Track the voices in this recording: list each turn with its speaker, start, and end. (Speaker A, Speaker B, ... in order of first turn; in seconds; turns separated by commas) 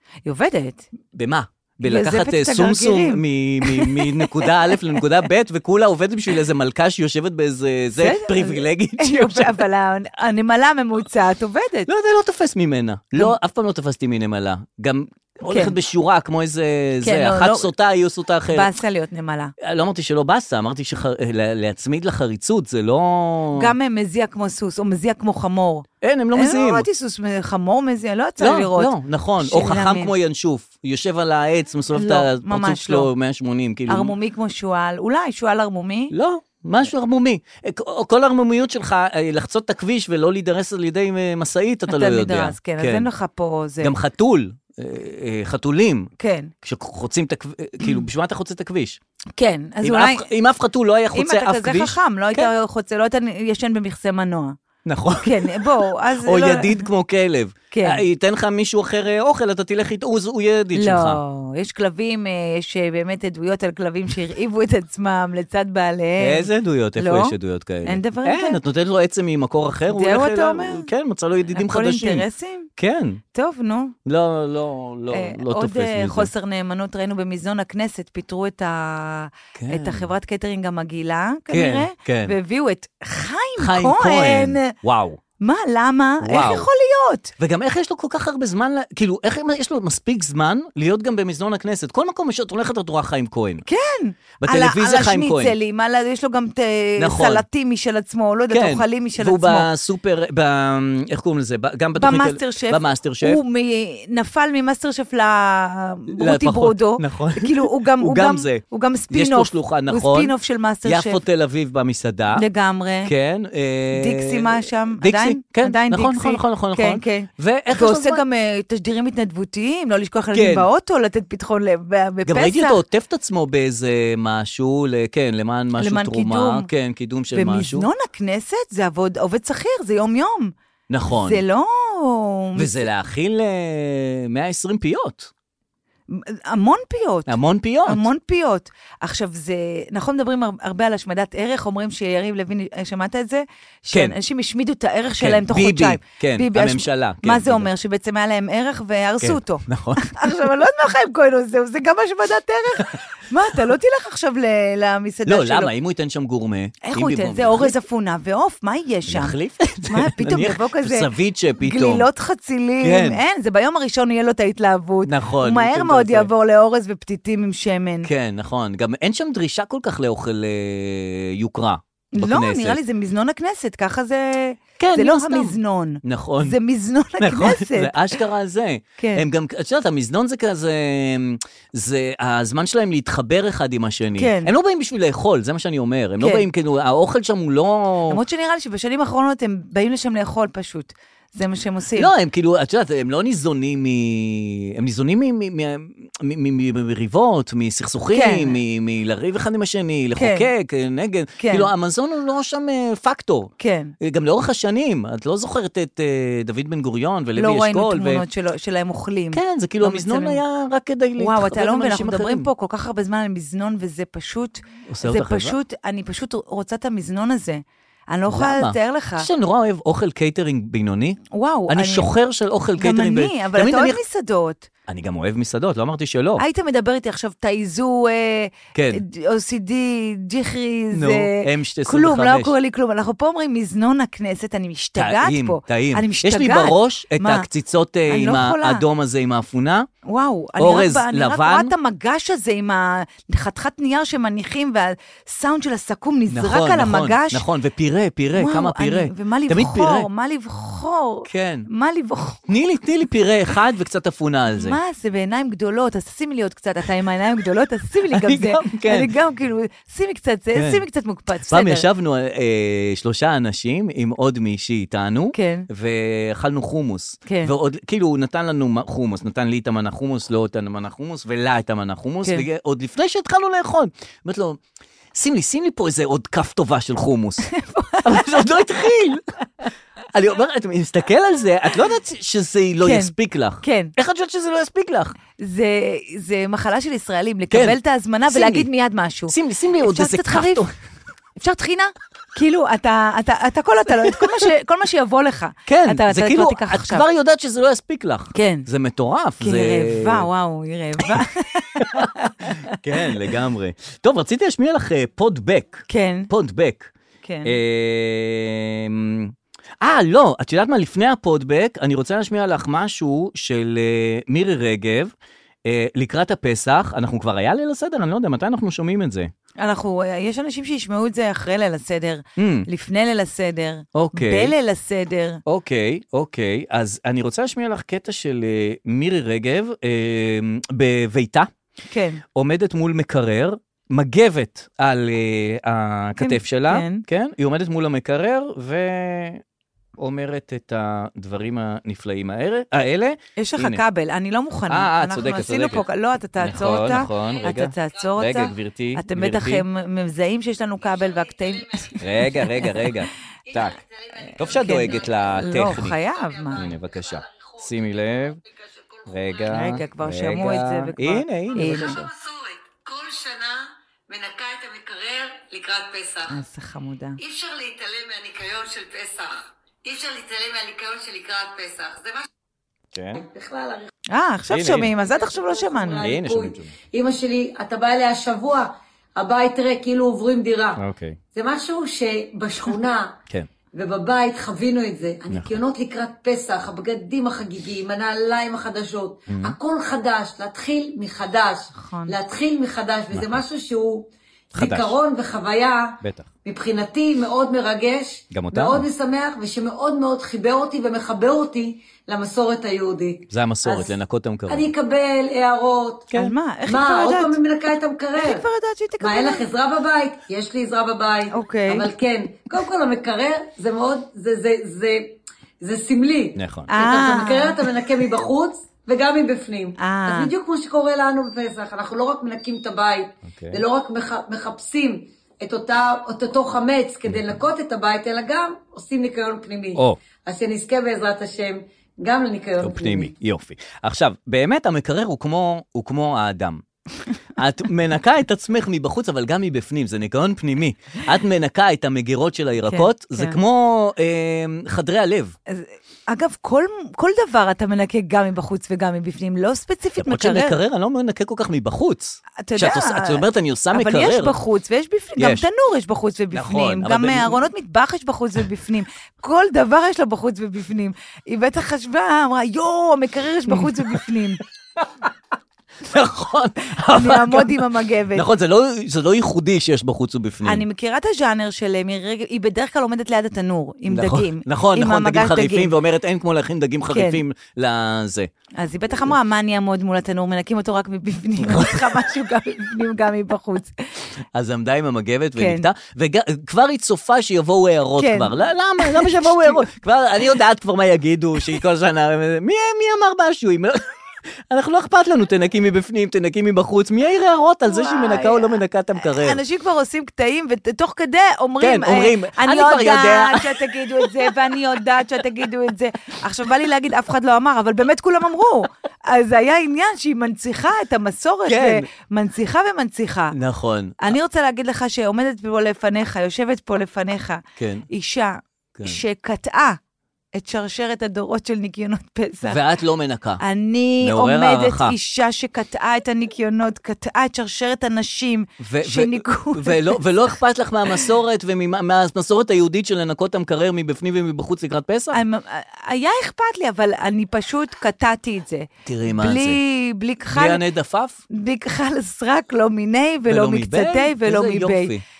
Speaker A: 0.2-0.9, Speaker B: 1.1-9.6, Speaker A: 1.8-4.5, Speaker A: 8.0-11.9, Speaker B: 11.9-18.7, Speaker A: 15.5-15.7, Speaker A: 17.0-17.7, Speaker A: 18.5-19.5, Speaker B: 19.6-23.7, Speaker A: 23.5-30.1, Speaker B: 26.0-26.9, Speaker B: 28.4-34.1, Speaker A: 31.9-33.1, Speaker A: 33.9-36.1, Speaker B: 36.1-43.1, Speaker A: 41.9-43.9, Speaker B: 43.8-46.1, Speaker A: 46.2-46.5, Speaker B: 46.6-49.0, Speaker A: 49.4-50.3, Speaker B: 49.8-52.5, Speaker A: 51.1-54.5, Speaker B: 54.9-61.2, Speaker A: 55.2-56.9, Speaker A: 57.7-58.0, Speaker A: 60.7-67.3, Speaker B: 66.2-72.2, Speaker A: 67.8-68.6, Speaker A: 69.9-70.9, Speaker A: 71.5-72.7, Speaker B: 72.8-73.2, Speaker A: 73.3-73.9, Speaker B: 74.0-76.3, Speaker A: 75.1-84.7, Speaker B: 79.5-80.1, Speaker B: 81.5-82.3, Speaker B: 83.6-85.2, Speaker A: 85.4-87.3, Speaker B: 86.2-86.7, Speaker B: 87.4-93.6, Speaker A: 93.7-99.7, Speaker B: 94.4-95.5, Speaker B: 97.0-97.4, Speaker B: 98.5-103.4, Speaker A: 102.0-111.2, Speaker B: 106.2-110.3, Speaker B: 110.8-112.4, Speaker A: 112.3-113.1, Speaker B: 113.0-118.2, Speaker A: 113.9-122.8, Speaker B: 120.3-120.7, Speaker B: 122.3-127.9, Speaker A: 125.8-126.7, Speaker A: 127.3-130.5, Speaker B: 130.9-131.4, Speaker A: 131.1-132.8, Speaker B: 132.6-135.3, Speaker A: 136.1-155.7, Speaker B: 137.3-138.1, Speaker B: 145.2-147.7, Speaker B: 149.2-150.5, Speaker B: 155.2-157.8, Speaker A: 156.8-159.3, Speaker B: 159.1-162.1, Speaker A: 159.8-161.1, Speaker A: 161.6-168.1, Speaker B: 162.8-163.2, Speaker B: 165.1-166.3, Speaker B: 168.0-172.8, Speaker A: 172.1-178.2, Speaker B: 174.8-176.6, Speaker B: 177.2-188.2, Speaker A: 179.0-179.2, Speaker A: 184.2-184.5, Speaker A: 186.2-186.4, Speaker A: 188.1-192.1, Speaker B: 191.9-208.2, Speaker A: 198.1-198.6, Speaker A: 200.2-200.5, Speaker A: 201.4-201.7, Speaker A: 203.6-203.9, Speaker A: 207.3-210.4, Speaker B: 209.3-212.5, Speaker A: 211.2-219.3, Speaker B: 214.9-215.6, Speaker B: 218.3-224.0, Speaker A: 221.3-222.1, Speaker A: 222.8-224.7, Speaker B: 224.9-226.4, Speaker A: 226.4-237.4, Speaker B: 228.7-229.0, Speaker B: 230.9-232.5, Speaker B: 235.0-239.9, Speaker A: 238.1-238.8, Speaker A: 240.1-247.4, Speaker B: 240.6-241.7, Speaker B: 246.3-250.1, Speaker A: 248.3-252.4, Speaker B: 251.2-251.7, Speaker B: 252.5-254.8, Speaker A: 254.5-261.8, Speaker B: 258.1-259.1, Speaker B: 260.5-260.8, Speaker B: 261.5-274.6, Speaker A: 265.3-265.7, Speaker A: 267.2-267.5, Speaker B: 275.1-277.5, Speaker A: 277.5-278.5, Speaker B: 278.0-279.2, Speaker B: 280.1-285.1, Speaker A: 282.8-283.9, Speaker A: 285.4-290.7, Speaker B: 287.5-287.8, Speaker B: 288.3-288.7, Speaker B: 289.3-290.7, Speaker A: 291.4-297.0, Speaker B: 295.7-300.3, Speaker A: 298.3-298.6, Speaker A: 299.4-303.1, Speaker B: 301.8-302.1, Speaker B: 302.6-306.9, Speaker A: 305.9-306.3, Speaker A: 307.2-307.5, Speaker B: 307.4-315.1, Speaker B: 315.6-319.3, Speaker A: 319.6-325.4, Speaker B: 322.4-322.7, Speaker B: 323.9-324.5, Speaker B: 325.4-331.5, Speaker A: 331.9-332.2, Speaker B: 332.3-339.4, Speaker A: 336.2-337.0, Speaker B: 340.0-343.8, Speaker A: 343.4-352.9, Speaker B: 344.7-345.8, Speaker B: 346.4-349.6, Speaker C: 351.0-352.0, Speaker B: 352.0-353.8, Speaker C: 353.5-355.4, Speaker A: 354.3-356.6, Speaker B: 354.4-356.0, Speaker C: 356.1-359.5, Speaker B: 356.5-358.4, Speaker B: 359.1-362.1, Speaker A: 359.5-362.0, Speaker C: 361.5-366.4, Speaker A: 366.3-367.2, Speaker C: 367.2-372.3, Speaker B: 372.9-373.2, Speaker C: 373.1-373.9, Speaker A: 374.1-376.1, Speaker B: 374.5-374.9, Speaker C: 374.9-380.8, Speaker B: 376.0-376.7, Speaker B: 380.8-381.2, Speaker C: 381.3-383.1, Speaker C: 383.7-403.9, Speaker B: 385.3-385.6, Speaker B: 389.3-389.6, Speaker A: 391.7-392.1, Speaker B: 393.1-393.4, Speaker B: 394.5-394.9, Speaker B: 396.0-396.3, Speaker B: 398.3-398.9, Speaker B: 403.3-404.7, Speaker C: 404.5-406.1, Speaker A: 406.1-407.4, Speaker C: 406.6-408.4, Speaker A: 408.2-409.5, Speaker C: 409.0-433.1, Speaker A: 411.3-411.9, Speaker B: 416.4-416.7, Speaker A: 416.7-417.6, Speaker A: 419.8-420.3, Speaker B: 423.3-423.6, Speaker B: 432.6-436.6, Speaker B: 437.4-445.4, Speaker A: 442.7-443.4, Speaker A: 445.5-450.5, Speaker B: 450.0-454.4, Speaker A: 452.4-464.4, Speaker B: 455.2-455.4, Speaker B: 456.3-457.4, Speaker B: 463.5-464.0, Speaker B: 465.8-470.6, Speaker A: 466.9-468.2, Speaker A: 470.4-475.7, Speaker B: 473.9-478.3, Speaker A: 476.9-477.2, Speaker A: 478.6-484.0, Speaker B: 481.4-481.9, Speaker B: 484.3-493.9, Speaker A: 485.4-485.7, Speaker A: 488.0-489.6, Speaker B: 494.5-499.4, Speaker A: 497.7-513.4, Speaker B: 501.6-504.3, Speaker B: 511.4-511.9, Speaker B: 513.3-514.1, Speaker A: 514.0-519.8, Speaker B: 517.6-517.9, Speaker A: 520.3-522.6, Speaker B: 522.4-523.4, Speaker A: 523.4-530.0, Speaker B: 524.0-525.0, Speaker B: 528.6-535.2, Speaker A: 535.1-540.6, Speaker B: 538.9-539.6, Speaker B: 540.3-541.2, Speaker A: 541.3-544.9, Speaker B: 543.3-545.0